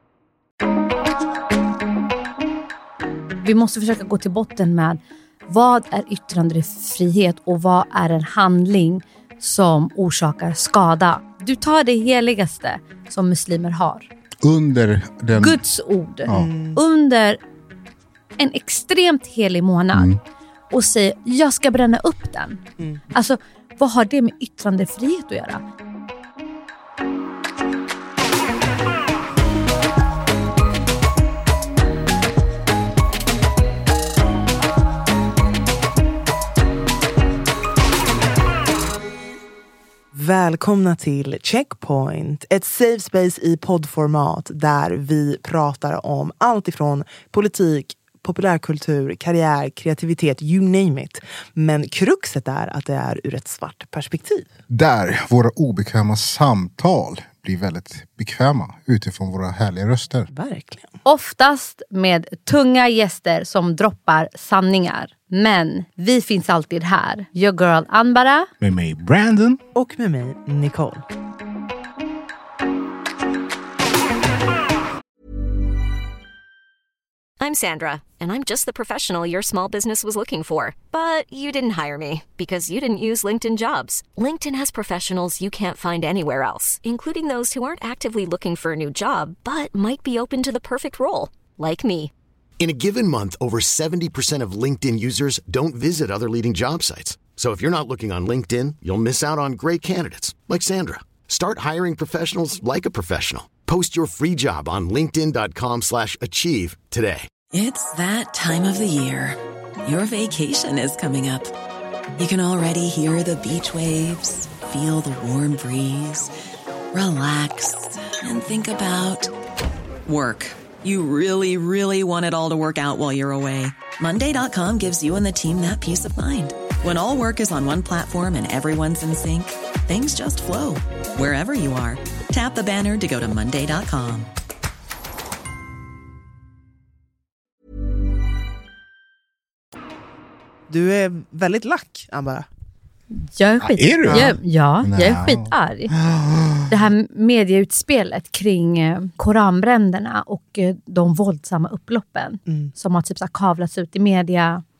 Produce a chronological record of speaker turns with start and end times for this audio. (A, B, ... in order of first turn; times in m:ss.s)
0:03.4-0:14.1 A
0:14.4-0:15.6 B
0:15.4-0:17.4 A
0:16.3-0:16.8 C
0:18.4-0:20.1 A
0:19.9-0:20.2 B
0:20.7-0:22.6 A
0:23.1-0:25.6 A
0:40.1-0:54.5 C
0:54.7-1:00.3 B
1:00.3-1:00.9 C
1:01.0-1:08.5 A
1:08.6-1:09.6 B
1:09.7-1:11.0 C
1:17.4-1:32.1 D
1:32.6-1:47.3 E
1:47.5-1:51.5 F
1:52.2-1:56.3 F
1:56.9-1:59.3 F
2:00.0-2:14.3 F
2:20.7-2:22.5 C
2:23.1-2:25.9 A
2:23.6-2:26.8 B
2:26.7-2:34.6 A
2:32.5-2:32.7 C